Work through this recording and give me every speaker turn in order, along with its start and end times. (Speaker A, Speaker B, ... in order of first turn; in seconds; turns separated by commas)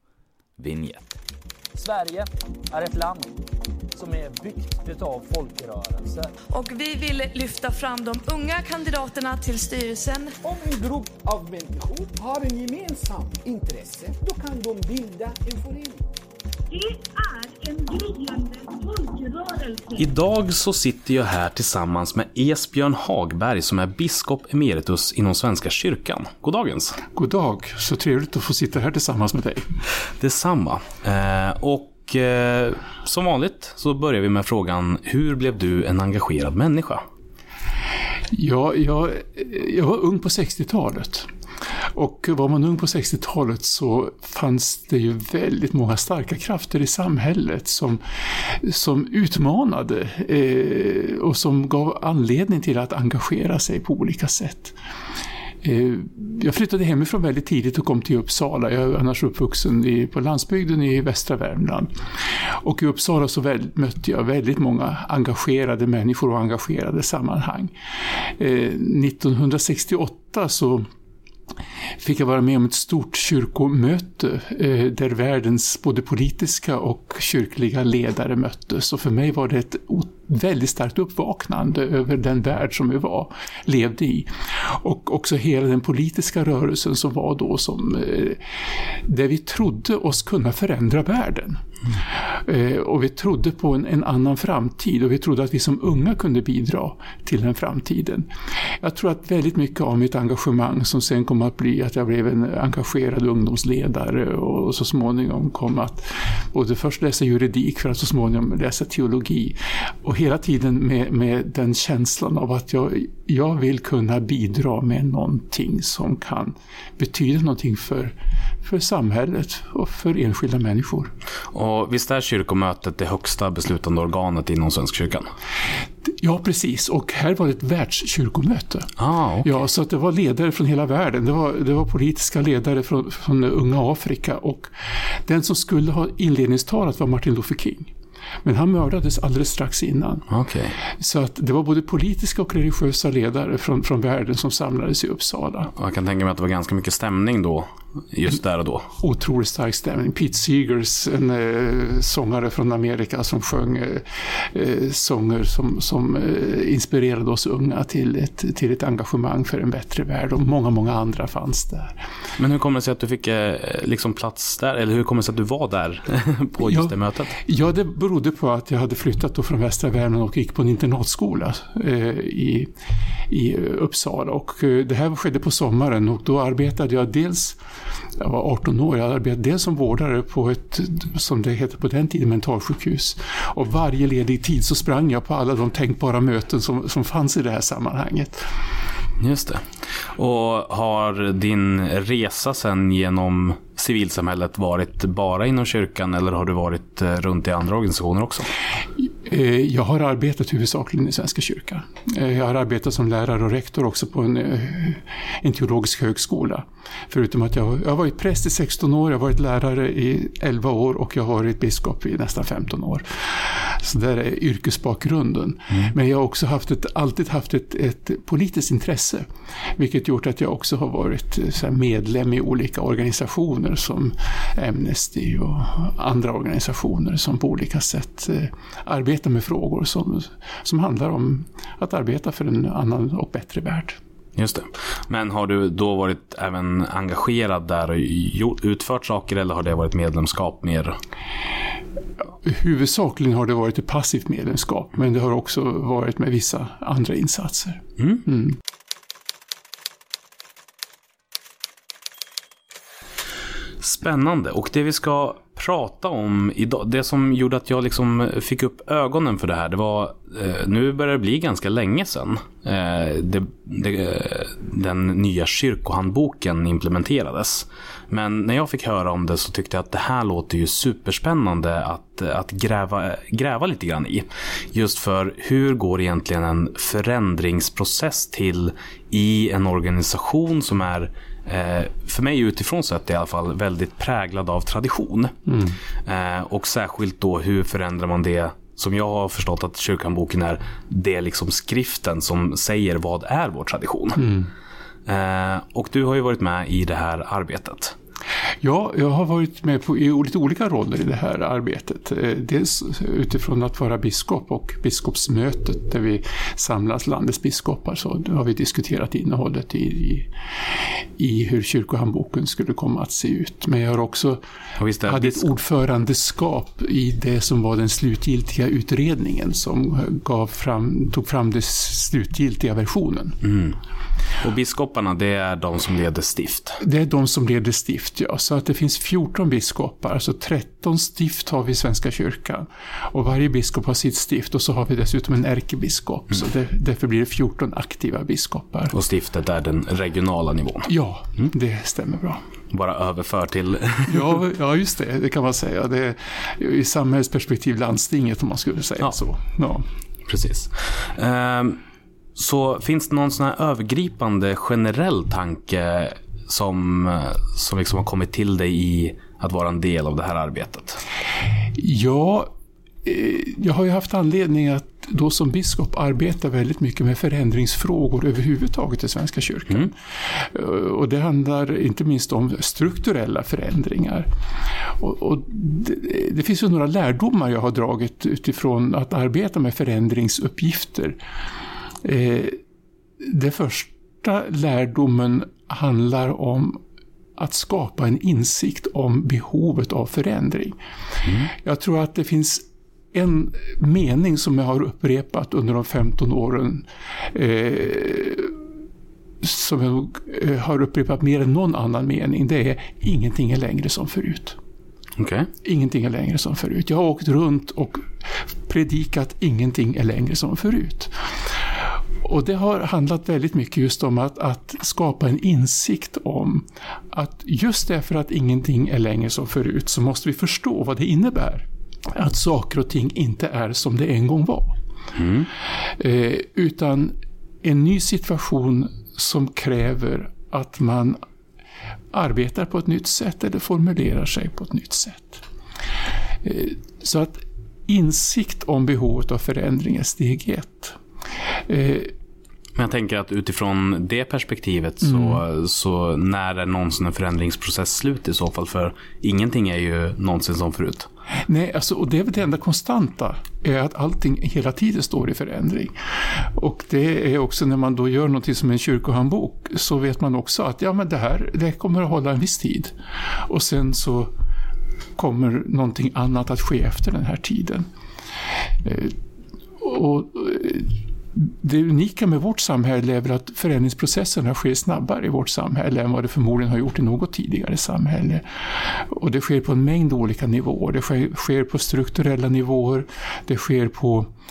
Speaker A: 0.6-1.1, Speaker B: 1.7-3.3, Speaker B: 4.0-6.3, Speaker C: 6.5-10.3, Speaker D: 10.4-16.1, Speaker E: 16.7-20.0, Speaker A: 19.9-27.0, Speaker F: 27.1-29.7, Speaker A: 30.2-37.0, Speaker F: 38.3-41.3, Speaker F: 41.9-54.8, Speaker F: 55.6-70.9, Speaker F: 72.0-88.4, Speaker F: 89.0-121.1, Speaker A: 121.5-125.3, Speaker F: 126.0-134.7, Speaker A: 129.0-129.5, Speaker F: 135.2-137.9, Speaker F: 138.4-140.2, Speaker A: 140.3-140.7, Speaker F: 140.8-145.7, Speaker A: 145.7-148.9, Speaker F: 149.0-162.0, Speaker A: 162.4-167.3, Speaker F: 166.6-172.7, Speaker F: 173.3-177.6, Speaker F: 178.2-188.4, Speaker A: 189.2-198.5, Speaker F: 199.2-234.0, Speaker A: 234.3-241.0, Speaker F: 242.4-248.6, Speaker A: 253.8-285.4, Speaker F: 285.5-285.8, Speaker A: 286.0-294.3, Speaker F: 294.1-294.5, Speaker A: 295.1-297.9, Speaker F: 298.6-310.3, Speaker F: 311.2-314.4, Speaker A: 314.8-315.5, Speaker F: 315.0-323.4, Speaker A: 323.4-323.8, Speaker A: 324.4-326.8, Speaker F: 326.8-338.9, Speaker A: 338.9-340.9, Speaker F: 340.9-342.4, Speaker A: 342.7-344.4, Speaker F: 344.1-349.8, Speaker A: 350.3-351.8, Speaker A: 352.4-361.0, Speaker F: 361.7-362.5, Speaker F: 363.0-374.3, Speaker F: 375.0-381.2, Speaker F: 382.0-382.6, Speaker F: 383.2-386.8, Speaker F: 387.4-398.6, Speaker A: 391.2-391.5, Speaker F: 399.4-404.6, Speaker A: 405.2-405.5, Speaker F: 405.6-408.1, Speaker F: 408.7-411.1, Speaker F: 412.2-424.8, Speaker A: 425.1-425.5, Speaker F: 426.0-431.2, Speaker F: 432.1-435.4, Speaker F: 436.4-441.0, Speaker F: 441.7-442.1, Speaker A: 442.8-451.1, Speaker F: 445.0-445.4, Speaker F: 451.5-462.9, Speaker F: 463.4-464.3, Speaker F: 465.2-467.9, Speaker F: 468.8-469.1, Speaker F: 469.8-484.3